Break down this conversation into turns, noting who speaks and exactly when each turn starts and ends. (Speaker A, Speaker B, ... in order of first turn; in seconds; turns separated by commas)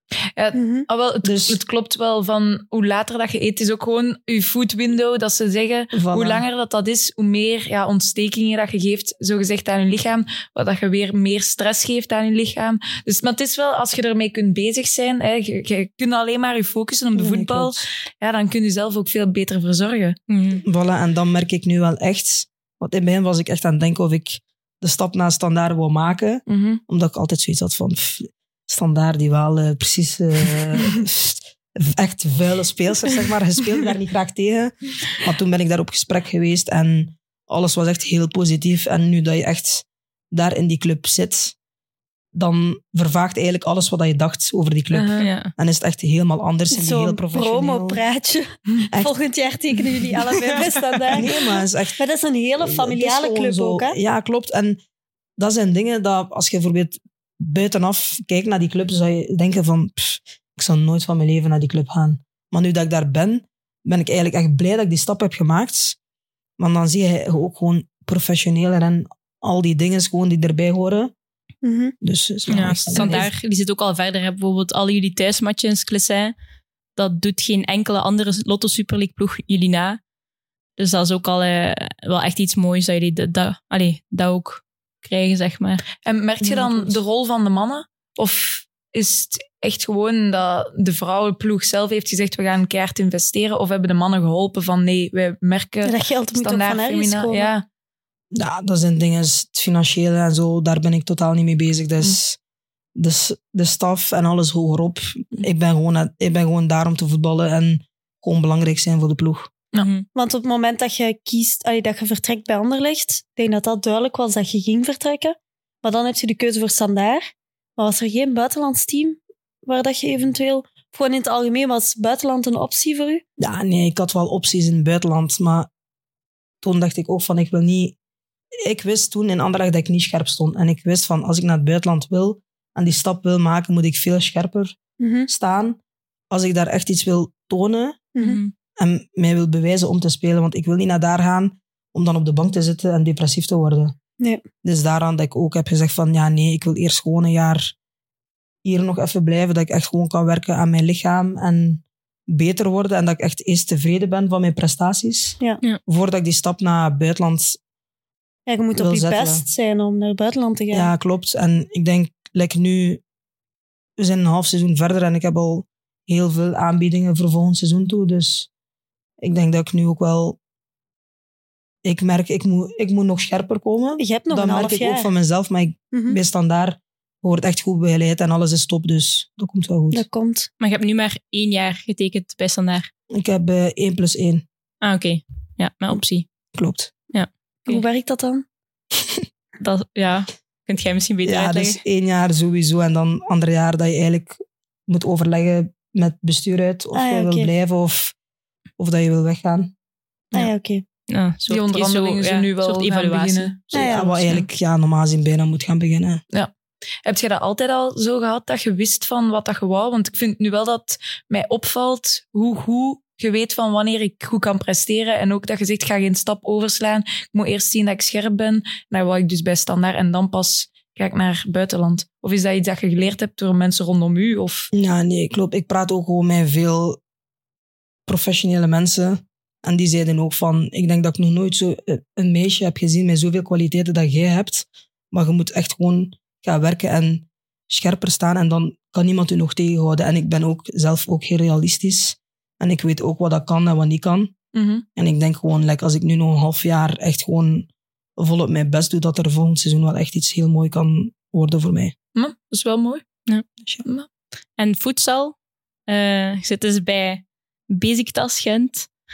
Speaker A: 0.3-20.2, Speaker B: 0.5-0.8, Speaker C: 1.2-1.6, Speaker C: 5.9-6.4, Speaker C: 17.1-17.9, Speaker D: 20.3-20.6, Speaker C: 20.6-41.5, Speaker A: 26.5-26.8, Speaker C: 42.3-48.0, Speaker A: 44.9-45.3, Speaker D: 45.2-45.5, Speaker B: 46.7-54.0, Speaker C: 51.1-52.0, Speaker C: 52.6-54.8, Speaker C: 55.4-66.0, Speaker C: 66.6-71.1, Speaker B: 71.6-71.9, Speaker C: 72.0-73.3, Speaker D: 72.5-76.3, Speaker A: 73.0-73.2, Speaker D: 77.0-80.0, Speaker D: 80.8-85.8, Speaker A: 86.0-97.7, Speaker C: 86.4-86.9, Speaker B: 95.8-97.5, Speaker C: 98.3-102.4, Speaker C: 102.9-109.5, Speaker D: 109.8-110.1, Speaker B: 110.1-123.2, Speaker C: 123.4-125.7, Speaker C: 126.6-128.0, Speaker C: 128.6-134.8, Speaker B: 135.0-135.3, Speaker C: 135.3-135.8, Speaker C: 136.3-138.0, Speaker B: 138.1-138.4, Speaker D: 138.2-138.5, Speaker C: 138.8-143.9, Speaker C: 144.6-147.7, Speaker C: 148.6-157.6, Speaker B: 158.5-160.9, Speaker C: 158.7-159.4, Speaker C: 160.7-163.0, Speaker C: 164.0-168.5, Speaker C: 169.2-170.4, Speaker C: 171.8-180.0, Speaker B: 174.0-175.1, Speaker B: 175.9-176.2, Speaker B: 179.9-180.5, Speaker D: 180.6-182.9, Speaker C: 183.1-184.4, Speaker D: 184.8-186.3, Speaker C: 186.5-186.9, Speaker D: 187.1-187.8, Speaker B: 187.7-188.4, Speaker D: 189.6-191.8, Speaker C: 191.2-198.1, Speaker B: 196.9-197.5, Speaker C: 198.8-199.7, Speaker B: 200.3-200.8, Speaker D: 201.1-203.5, Speaker A: 201.5-203.7, Speaker C: 203.7-206.2, Speaker B: 203.7-204.2, Speaker A: 207.0-224.7, Speaker C: 224.7-227.0, Speaker C: 228.1-244.3, Speaker A: 244.5-244.8, Speaker C: 244.9-251.9, Speaker A: 252.1-253.0, Speaker D: 254.6-255.3, Speaker D: 255.9-258.9